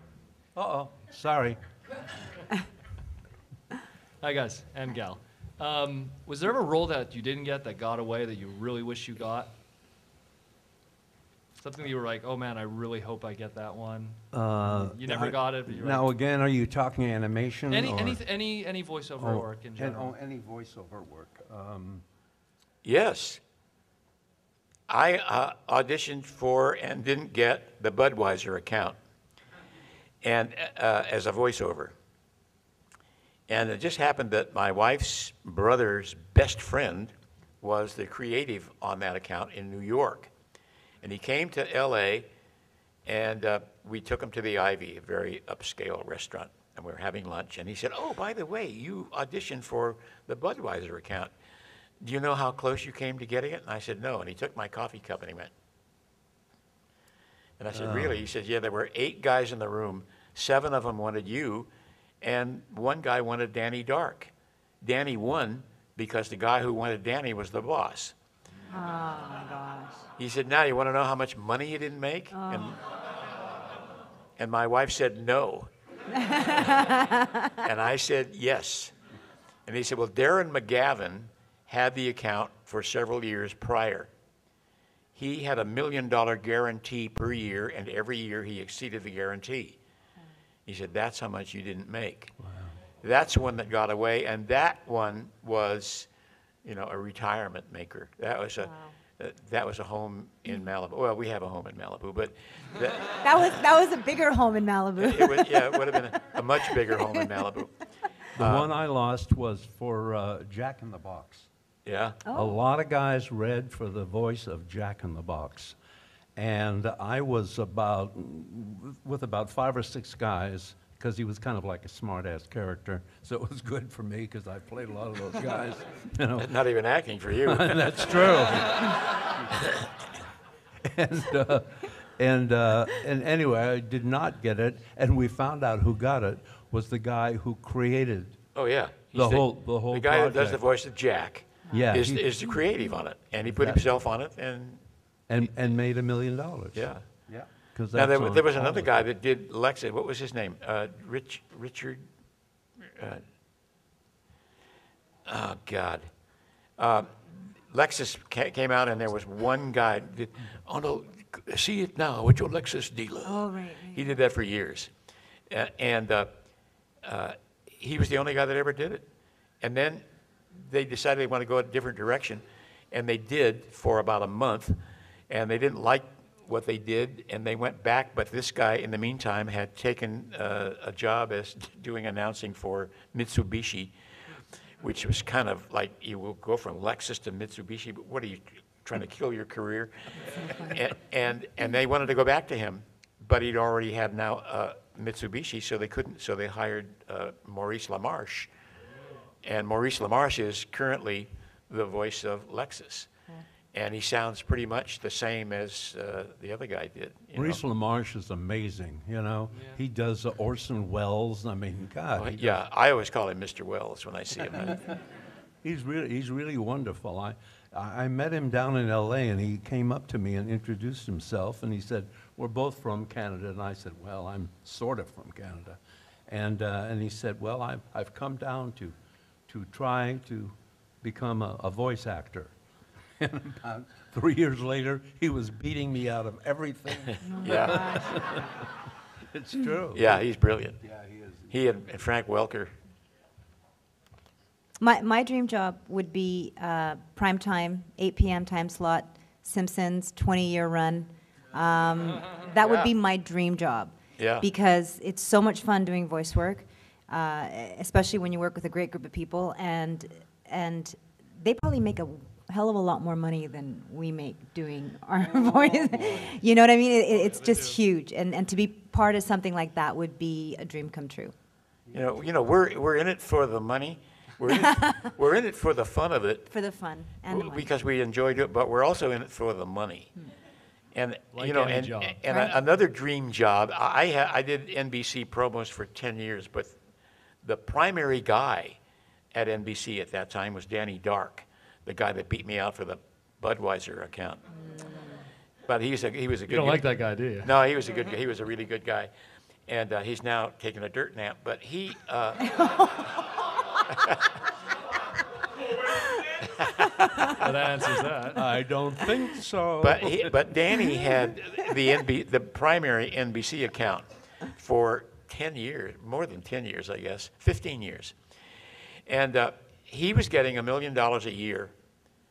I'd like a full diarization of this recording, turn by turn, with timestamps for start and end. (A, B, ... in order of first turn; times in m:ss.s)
0:00.6-0:01.6 A
0:04.2-0:09.5 B
0:11.6-0:16.1 B
0:14.3-0:18.2 A
0:17.7-0:20.1 B
0:19.2-0:22.0 A
0:22.8-0:23.4 C
0:24.9-0:29.0 C
0:30.2-0:31.9 C
0:33.5-0:40.3 C
0:41.0-0:42.3 C
0:43.0-0:51.3 C
0:52.0-0:55.5 C
0:57.6-1:01.7 C
0:57.7-0:58.2 A
1:02.2-1:04.3 C
1:04.8-1:08.1 C
1:08.7-1:10.0 D
1:10.2-1:12.8 C
1:12.3-1:12.8 D
1:14.4-1:15.7 C
1:16.1-1:17.5 D
1:17.6-1:18.9 C
1:19.7-1:24.1 C
1:25.2-1:29.8 C
1:30.7-1:32.3 C
1:32.4-1:32.7 A
1:33.0-1:36.1 C
1:36.6-1:43.5 C
1:38.6-1:38.9 D
1:43.2-1:45.8 D
1:45.0-1:47.7 C
1:48.3-1:48.7 C
1:48.4-1:51.5 A
1:51.8-1:52.2 C
1:52.2-1:52.6 D
1:52.3-1:55.8 A
1:56.4-2:06.6 A
2:06.4-2:09.0 C
2:07.4-2:09.4 A
2:10.8-2:18.4 A
2:18.6-2:24.8 C
2:19.1-2:20.6 A
2:21.7-2:22.3 A
2:23.4-2:23.8 A
2:25.3-2:29.0 A
2:26.7-2:27.0 C
2:27.9-2:32.0 C
2:32.9-2:33.2 C
2:35.3-2:36.1 C
2:36.8-2:44.9 C
2:43.2-2:44.2 D
2:45.5-2:46.3 C
2:47.0-2:49.0 C
2:49.6-2:54.8 C
2:55.3-3:03.9 C
3:04.8-3:18.5 C
3:19.4-3:23.1 C
3:23.7-3:27.6 C
3:27.3-3:32.6 A
3:32.2-3:35.0 C
3:35.6-3:49.0 A
3:49.5-3:52.5 A
3:53.2-3:58.7 A
3:57.3-3:58.0 D
3:57.4-3:58.1 C
3:59.3-4:00.2 A
3:59.9-4:00.8 C
4:00.8-4:01.6 A
4:01.5-4:02.7 C
4:04.8-4:31.3 D
4:12.6-4:12.9 C
4:14.2-4:14.4 C
4:25.2-4:26.4 A
4:31.9-4:32.2 A
4:31.9-4:36.5 C
4:34.5-4:35.1 D
4:36.5-4:37.7 D
4:37.3-4:40.1 C
4:40.9-4:46.8 C
4:41.3-4:42.2 B
4:42.3-4:42.5 D
4:47.4-4:48.8 C
4:49.3-4:54.4 C
4:54.6-4:55.2 D
4:55.7-4:59.1 C
4:56.5-4:57.5 B
4:59.7-5:02.6 C
5:02.6-5:02.9 D
5:03.9-5:04.3 C
5:07.4-5:08.5 B
5:07.4-5:07.8 C
5:08.3-5:10.4 A
5:09.8-5:18.1 C
5:19.1-5:21.7 C